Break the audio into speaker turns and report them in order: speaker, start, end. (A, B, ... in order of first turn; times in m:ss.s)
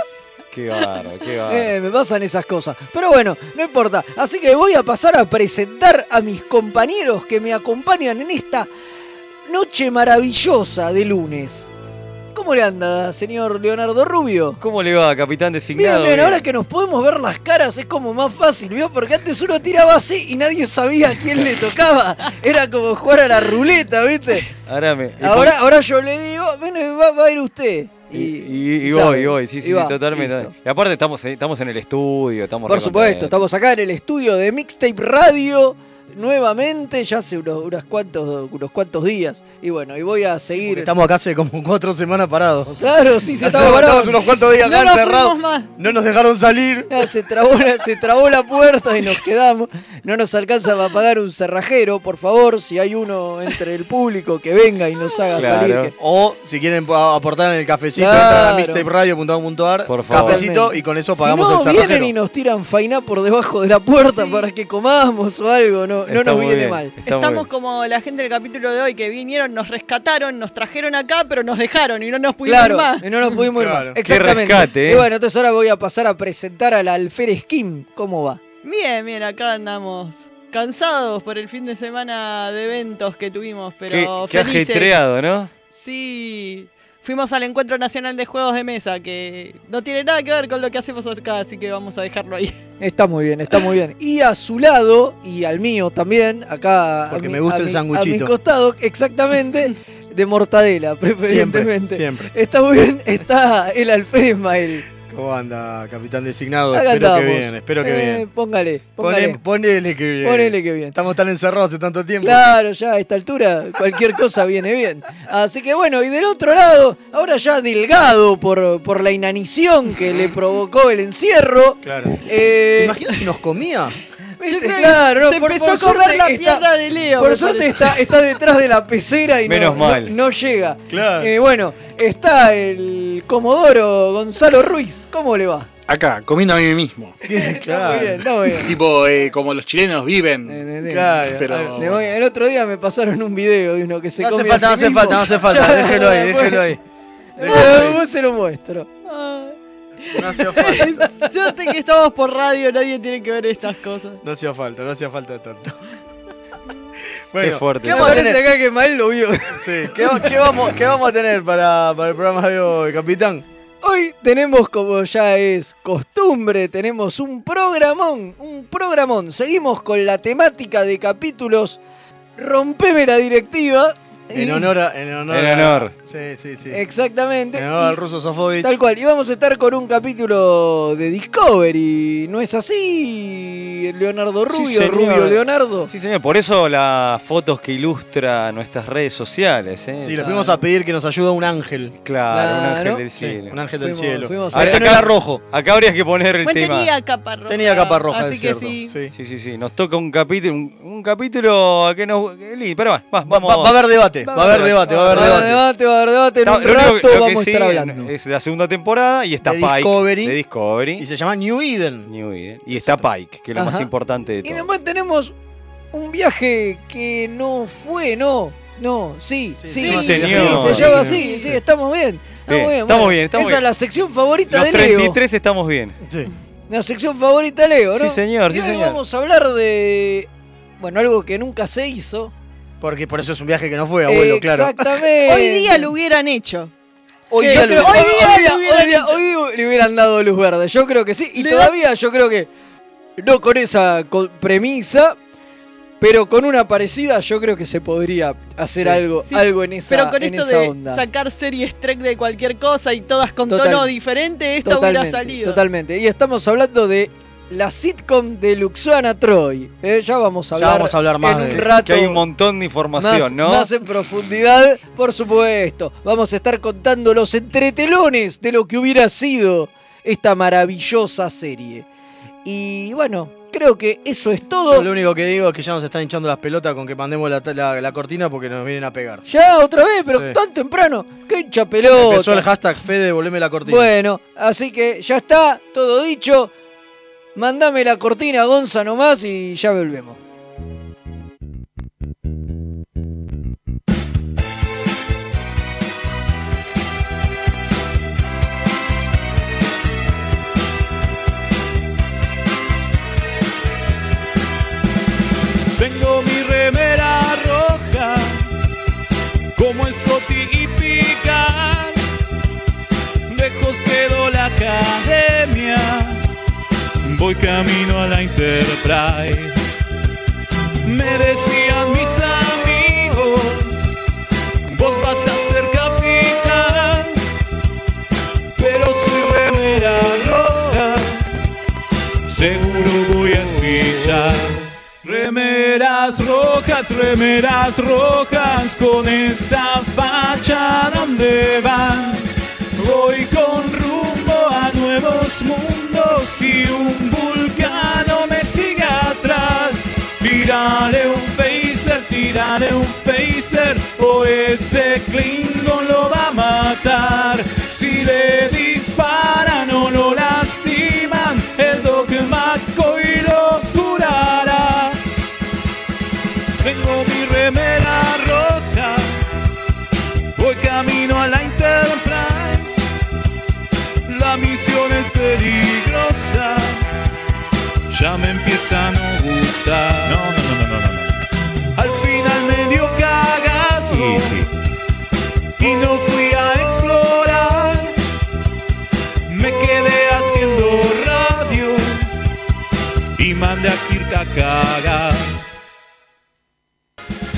0:00.5-0:01.7 A
0:01.5-0:08.7 B
0:09.5-0:11.7 B
0:12.3-0:14.6 B
0:14.6-0:16.4 A
0:15.7-0:24.5 B
0:24.6-0:25.6 A
0:25.2-0:30.5 B
0:28.1-0:33.3 A
0:32.7-0:40.9 B
0:40.5-0:42.9 C
0:42.8-0:44.2 B
0:43.4-0:47.1 C
0:44.6-0:45.7 D
0:46.9-0:55.9 B
0:55.3-0:55.9 A
0:56.0-1:02.1 C
0:58.0-0:58.8 B
0:59.9-1:00.4 A
1:00.1-1:06.9 B
1:04.0-1:04.5 D
1:06.1-1:07.4 A
1:07.0-1:13.3 D
1:12.4-1:18.4 B
1:13.5-1:14.0 C
1:14.0-1:15.0 A
1:18.6-1:25.0 D
1:23.9-1:25.5 A
1:25.7-1:32.5 D
1:32.8-1:44.8 B
1:37.1-1:38.3 C
1:41.2-1:42.3 C
1:45.0-1:48.2 C
1:46.7-1:49.4 B
1:49.0-1:52.5 C
1:50.2-1:51.0 B
1:52.2-2:03.2 B
2:01.8-2:02.2 C
2:02.7-2:04.0 C
2:04.4-2:06.7 B
2:04.4-2:08.0 D
2:07.2-2:15.7 B
2:09.4-2:10.1 A
2:10.9-2:11.3 C
2:15.9-2:17.2 E
2:17.3-2:18.2 C
2:17.3-2:18.7 B
2:18.5-2:20.6 E
2:20.5-2:21.2 B
2:20.9-2:21.8 C
2:21.3-2:22.1 E
2:21.7-2:26.6 B
2:24.2-2:26.8 C
2:27.4-2:28.0 C
2:27.4-2:28.9 B
2:27.5-2:27.8 D
2:29.0-2:29.6 D
2:30.1-2:31.0 C
2:30.5-2:31.1 B
2:30.5-2:34.2 D
2:34.2-2:35.8 C
2:37.3-2:38.4 C
2:37.4-2:38.3 A
2:37.8-2:40.2 B
2:39.5-2:43.4 C
2:43.8-2:51.8 B
2:52.4-2:54.7 B
2:54.3-2:56.8 C
2:55.3-2:55.9 A
2:56.7-2:58.0 B
2:57.5-2:58.8 C
2:58.6-3:05.9 B
3:04.5-3:10.3 A
3:10.0-3:11.9 C
3:10.2-3:10.6 B
3:12.0-3:13.6 A
3:12.3-3:13.0 B
3:13.2-3:15.4 C
3:13.8-3:15.0 B
3:14.5-3:16.9 A
3:16.4-3:18.9 D
3:17.5-3:19.1 C
3:19.1-3:23.7 A
3:23.2-3:25.6 C
3:24.2-3:28.1 B
3:24.4-3:25.6 A
3:26.4-3:31.0 A
3:29.4-3:30.4 C
3:31.0-3:32.1 C
3:32.0-3:34.7 A
3:32.7-3:33.1 C
3:33.5-3:33.9 B
3:34.4-3:35.3 B
3:35.9-3:45.2 B
3:39.6-3:41.5 C
3:39.8-3:41.5 D
3:39.8-3:41.2 A
3:42.5-3:43.6 A
3:44.5-3:46.0 A
3:46.0-3:46.3 C
3:46.7-3:50.3 B
3:47.9-3:49.0 A
3:50.8-3:52.3 B
3:52.8-3:55.0 C
3:54.1-3:55.9 B
3:55.2-3:56.7 D
3:57.3-3:58.1 C
3:57.4-4:02.5 B
3:57.4-3:59.2 D
4:01.4-4:01.7 D
4:03.2-4:05.2 B
4:06.0-4:11.0 B
4:08.7-4:09.0 C
4:09.2-4:15.6 D
4:13.5-4:13.9 B
4:14.6-4:22.2 B
4:20.5-4:21.6 C
4:21.5-4:23.7 A
4:23.0-4:31.8 B
4:32.4-4:34.9 B
4:34.6-4:39.2 C
4:39.3-4:42.4 B
4:40.1-4:40.4 C
4:41.9-4:43.9 C
4:43.6-4:46.5 B
4:47.3-4:50.2 B
5:05.8-5:08.4 F
5:09.6-5:12.0 F
5:13.3-5:16.2 F
5:17.0-5:19.8 F
5:20.8-5:23.9 F
5:24.7-5:27.2 F
5:28.6-5:31.2 F
5:32.2-6:05.0 F
6:06.6-6:09.1 F
6:10.4-6:12.8 F
6:14.1-6:16.8 F
6:17.9-6:21.2 F
6:21.7-6:24.5 F
6:25.6-6:27.9 F
6:29.3-6:32.1 F
6:33.2-6:35.3 F